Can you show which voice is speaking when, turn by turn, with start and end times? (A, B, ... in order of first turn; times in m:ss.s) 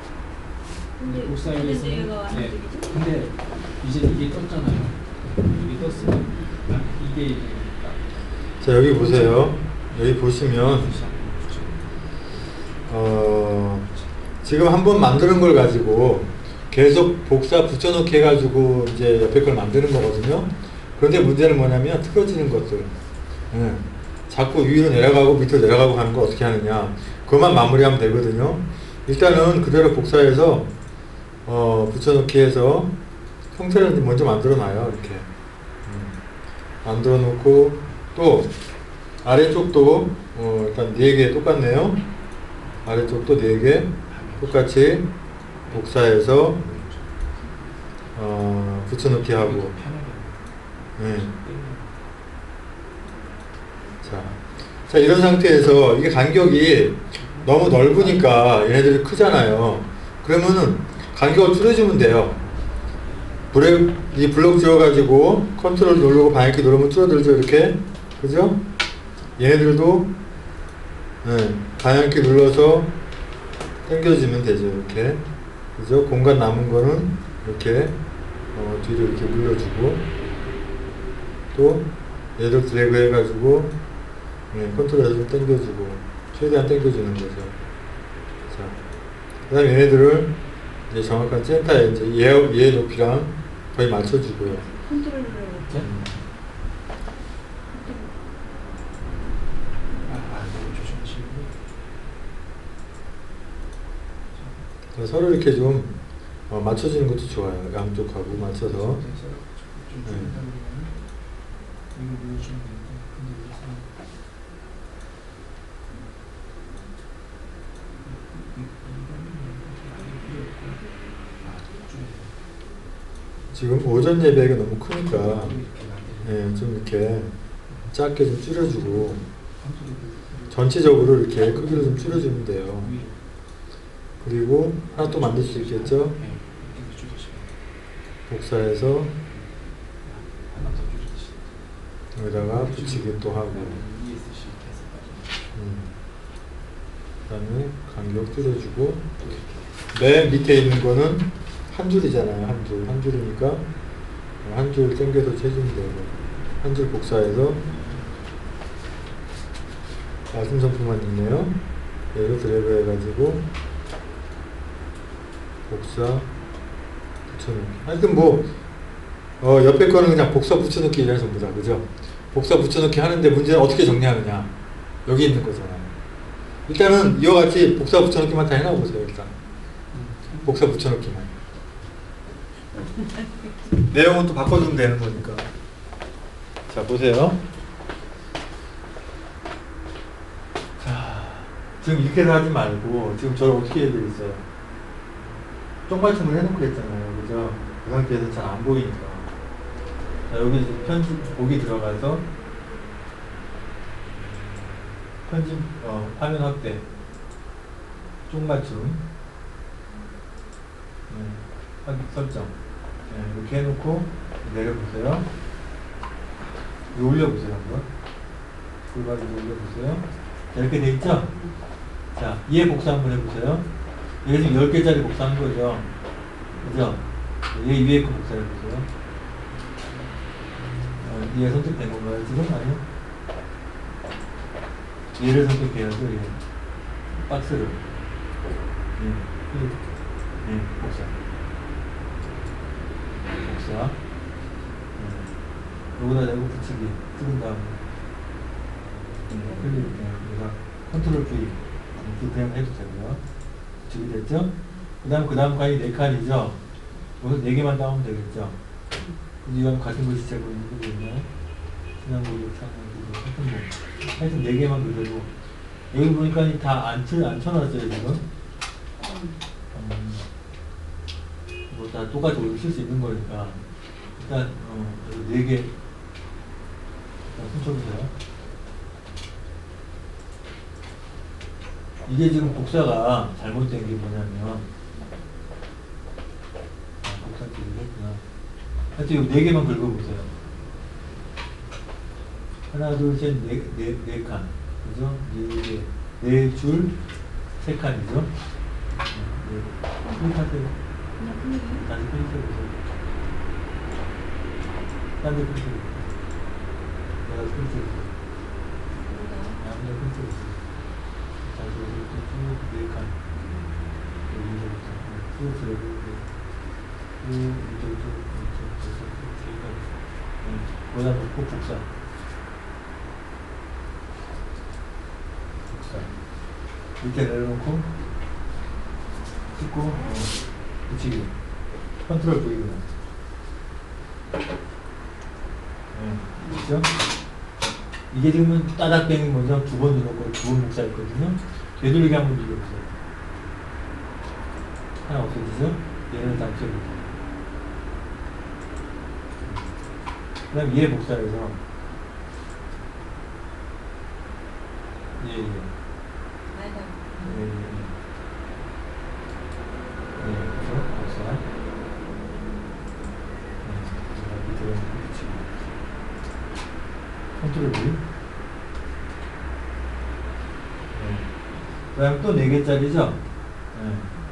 0:01.0-0:02.9 A
0:01.0-0:08.0 B
0:08.6-0:10.9 C
0:08.9-0:09.2 B
0:10.1-0:12.0 B
0:12.9-0:13.9 C
0:14.4-0:22.9 C
0:23.5-0:30.7 C
0:31.4-0:32.9 C
0:33.5-0:35.3 C
0:35.8-0:36.2 C
0:36.8-0:38.5 C
0:39.2-0:42.0 C
0:42.8-0:44.7 B
0:42.8-0:45.1 C
0:45.6-0:47.1 B
0:45.7-0:46.7 C
0:48.1-0:49.8 C
0:49.3-0:52.0 B
0:51.0-0:51.3 C
0:54.0-1:02.4 C
0:57.1-0:58.4 B
1:03.5-1:08.6 C
1:09.4-1:10.1 C
1:11.2-1:12.9 C
1:13.8-1:15.2 C
1:15.8-1:18.0 C
1:18.5-1:20.0 C
1:21.5-1:23.7 C
1:24.5-1:27.6 C
1:28.5-1:28.8 C
1:29.5-1:30.3 C
1:30.9-1:34.7 C
1:34.6-1:35.9 A
1:35.6-1:35.9 B
1:35.7-1:36.2 C
1:37.7-1:38.1 A
1:40.0-1:41.5 B
1:44.3-1:44.6 B
1:44.9-1:45.9 C
1:46.5-1:49.0 C
1:48.3-1:50.9 B
1:50.0-1:50.4 C
1:51.9-1:53.9 B
1:58.0-2:00.8 B
2:01.4-2:02.4 B
2:03.5-2:05.6 C
2:05.1-2:06.4 B
2:06.2-2:07.3 C
2:07.9-2:09.2 C
2:08.6-2:13.2 B
2:10.5-2:12.9 C
2:14.2-2:16.2 C
2:14.9-2:17.5 B
2:18.3-2:19.1 C
2:20.0-2:21.5 B
2:22.1-2:23.8 C
2:22.3-2:25.4 B
2:25.5-2:25.9 C
2:27.3-2:29.0 C
2:29.2-2:29.6 B
2:29.9-2:33.6 C
2:34.4-2:37.6 C
2:40.3-2:41.5 C
2:42.1-2:43.4 C
2:45.7-2:46.3 C
2:47.3-2:48.5 C
2:49.4-2:54.5 C
2:55.0-2:55.9 C
2:56.6-2:59.4 C
2:59.9-3:00.6 B
3:00.4-3:01.3 C
3:03.8-3:05.5 C
3:06.7-3:07.4 C
3:10.8-3:14.4 C
3:15.9-3:19.3 C
3:20.3-3:22.2 C
3:25.2-3:26.8 C
3:28.3-3:29.0 C
3:31.1-3:35.3 C
3:36.9-3:37.9 C
3:38.8-3:41.3 C
3:42.1-3:43.7 C
3:44.2-3:45.9 C
3:46.6-3:48.9 C
3:51.0-3:52.8 C
3:55.2-3:56.4 C
3:57.1-3:57.8 C
3:59.0-4:01.2 C
4:03.4-4:04.0 C
4:05.0-4:05.4 C
4:06.0-4:07.8 C
4:09.3-4:09.7 A
4:09.3-4:13.2 C
4:13.8-4:16.6 C
4:17.2-4:18.6 C
4:19.4-4:21.3 C
4:22.0-4:25.3 C
4:25.9-4:28.2 C
4:29.0-4:29.4 A
4:29.7-4:30.2 C
4:31.7-4:33.6 C
4:34.2-4:35.7 C
4:37.3-4:38.1 C
4:42.0-4:44.7 C
4:47.0-4:48.2 C
4:48.9-4:50.3 C
4:52.7-4:56.9 C
4:57.6-4:58.3 C
4:59.1-5:00.8 C
5:01.2-5:01.8 A
5:01.8-5:02.8 C
5:05.2-5:06.1 C
5:07.2-5:08.2 C
5:09.0-5:09.6 A
5:09.6-5:10.6 C
5:11.4-5:13.2 C
5:13.3-5:13.8 A
5:14.2-5:16.3 C
5:17.2-5:21.9 C
5:25.7-5:26.1 C
5:27.0-5:27.9 C
5:29.5-5:31.3 C
5:32.0-5:32.9 C
5:35.9-5:36.9 C
5:38.1-5:43.0 C
5:45.0-5:47.1 C
5:49.4-5:49.8 C
5:50.5-5:51.6 C
5:55.2-5:55.7 C
5:56.5-5:57.3 A
5:57.2-5:58.0 C
6:00.2-6:01.4 C
6:03.6-6:05.7 C
6:07.3-6:08.0 C
6:10.9-6:11.3 C
6:11.9-6:13.2 C
6:13.7-6:14.1 C